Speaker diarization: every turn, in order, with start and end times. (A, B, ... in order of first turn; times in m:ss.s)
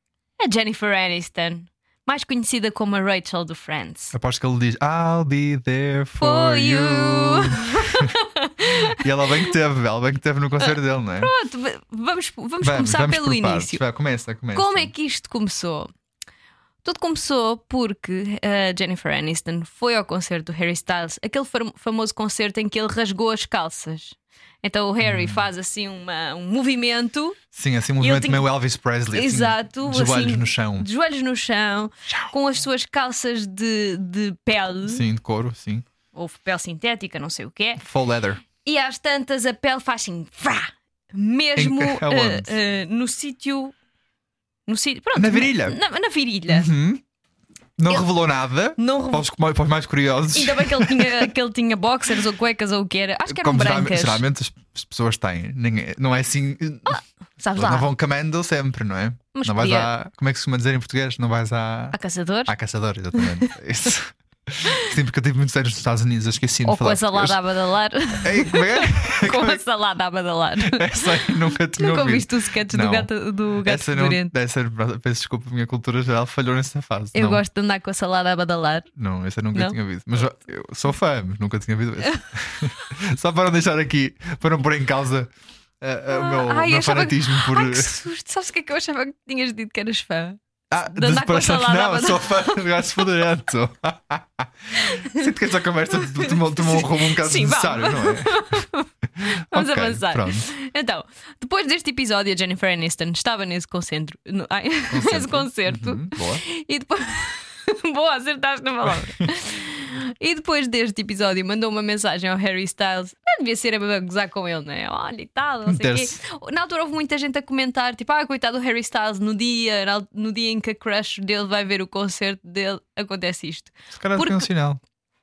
0:00.4-0:04.1 A
0:04.1-0:08.1 B
0:06.2-0:09.5 A
0:08.8-0:11.3 B
0:10.6-0:13.8 A
0:12.6-0:14.9 B
0:14.5-0:15.9 A
0:16.8-0:27.4 A
0:25.0-0:25.5 B
0:27.5-0:30.9 B
0:28.0-0:28.4 A
0:29.1-0:35.0 A
0:34.9-0:35.9 B
0:36.1-0:37.8 A
0:37.8-0:38.4 B
0:38.6-0:43.7 A
0:41.6-0:42.5 B
0:44.7-0:46.7 A
0:45.2-0:45.8 B
0:46.5-0:47.0 B
0:47.8-0:51.3 B
0:48.8-0:49.3 A
0:50.3-0:54.2 A
0:53.3-0:57.0 B
0:56.9-0:57.9 A
0:57.6-1:02.0 B
0:59.3-0:59.9 A
1:01.9-1:02.5 A
1:02.5-1:07.4 B
1:03.1-1:03.5 A
1:06.6-1:14.3 A
1:08.2-1:09.6 B
1:10.6-1:13.1 B
1:13.6-1:17.4 B
1:17.1-1:18.9 A
1:19.0-1:28.0 B
1:26.1-1:30.4 A
1:30.7-1:38.6 B
1:30.9-1:32.6 A
1:34.8-1:35.3 A
1:35.9-2:04.5 A
1:39.2-1:40.5 B
1:44.9-1:46.4 B
1:55.7-1:56.2 B
2:03.9-2:04.8 B